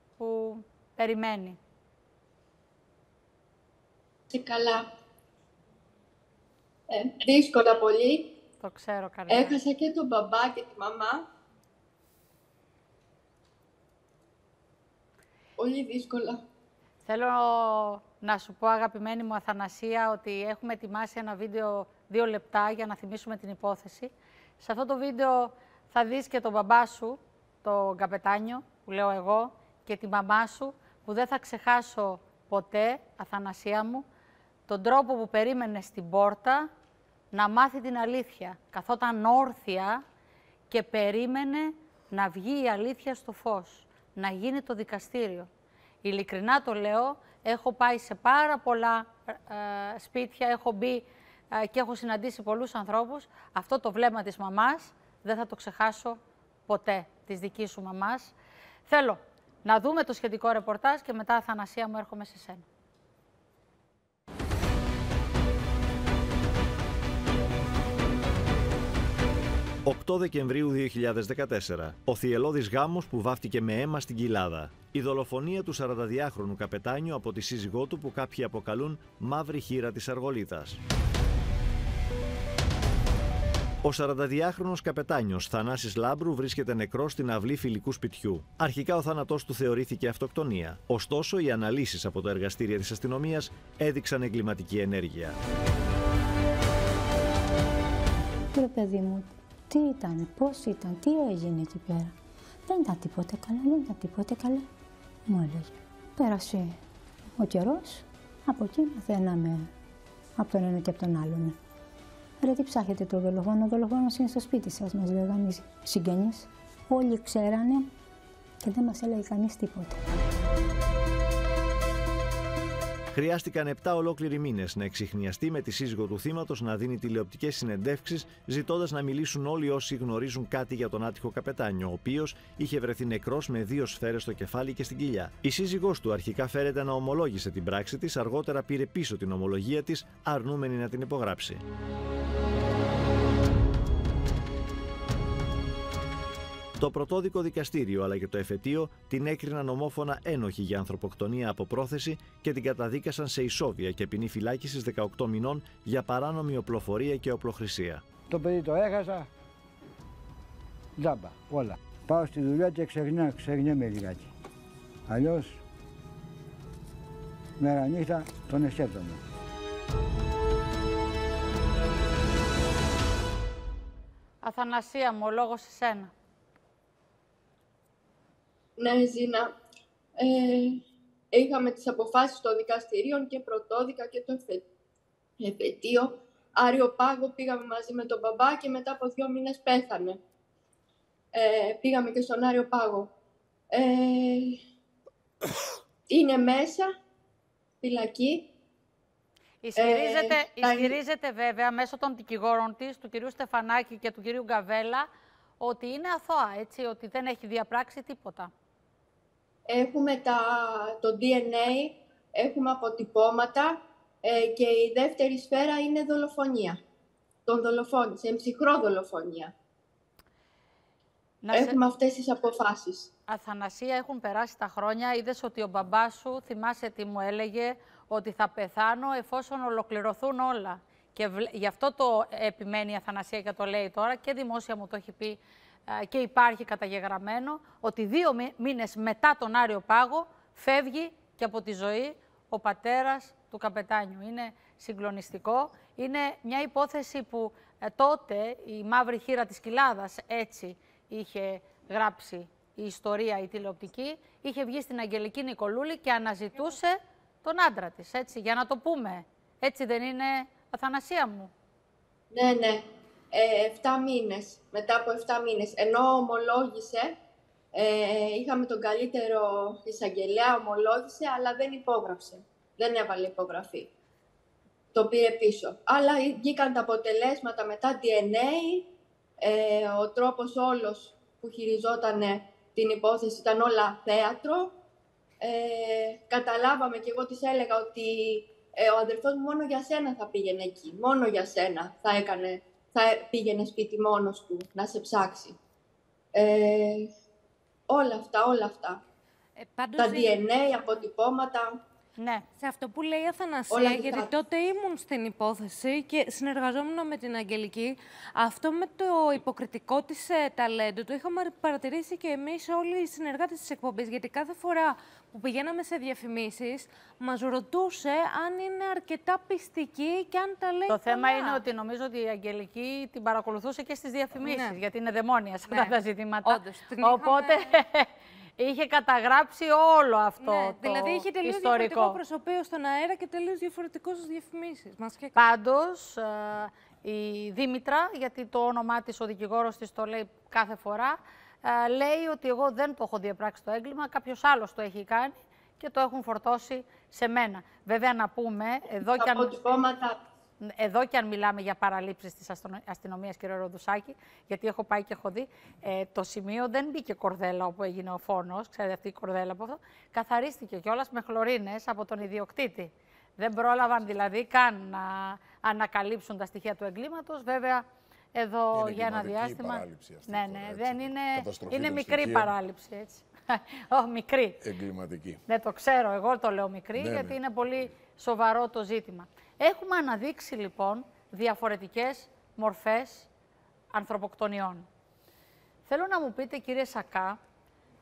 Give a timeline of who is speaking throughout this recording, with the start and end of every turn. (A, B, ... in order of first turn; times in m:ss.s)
0:00.2-0:01.6 A
0:04.3-0:04.9 B
0:06.9-0:08.4 B
0:08.6-0:09.6 A
0:09.3-0:11.2 B
0:15.6-0:16.4 B
0:17.1-0:34.0 A
0:34.7-0:36.7 A
0:37.3-0:40.0 A
0:40.7-0:45.5 A
0:46.0-0:58.3 A
0:58.9-1:02.7 A
1:09.9-1:20.8 C
1:23.8-1:35.4 C
1:38.5-1:42.2 D
1:42.7-1:44.7 D
1:45.3-1:46.8 D
1:47.4-1:49.7 D
1:50.4-1:51.6 D
1:52.4-1:57.9 D
1:58.6-2:00.0 D
2:03.1-2:21.6 C
2:26.8-2:38.0 C
2:38.3-2:39.3 E
2:41.0-2:44.3 E
2:45.1-2:45.6 E
2:47.6-2:48.8 F
2:47.7-2:49.2 E
2:54.4-2:56.1 A
2:58.8-2:59.5 B
3:00.2-3:04.6 B
3:05.4-3:10.2 B
3:11.3-3:13.1 B
3:13.7-3:14.6 B
3:16.1-3:16.9 B
3:17.8-3:18.5 B
3:19.6-3:25.1 A
3:19.8-3:21.0 B
3:25.6-3:28.5 A
3:29.7-3:36.8 B
3:37.5-3:39.5 B
3:41.4-3:41.8 A
3:41.5-3:43.1 B
3:43.3-4:21.5 A
4:22.3-4:27.2 B
4:27.7-4:33.9 B
4:34.9-4:38.9 B
4:39.4-4:44.8 B
4:45.4-4:55.6 B
4:56.3-4:57.1 B
4:57.9-4:59.0 B
4:59.6-5:01.1 G
5:00.0-5:01.8 B
5:02.2-5:02.5 A
5:02.6-5:21.6 G
5:03.7-5:04.3 B
5:20.9-5:32.2 A
5:24.4-5:24.8 G
5:25.7-5:27.7 G
5:30.4-5:35.4 G
5:35.4-5:49.6 A
5:49.1-5:50.2 B
5:50.6-6:14.6 A
6:08.7-6:12.5 F
6:14.6-6:15.4 F
6:15.5-6:23.3 A
6:17.0-6:17.9 F
6:23.9-6:24.9 A
6:25.9-6:27.4 A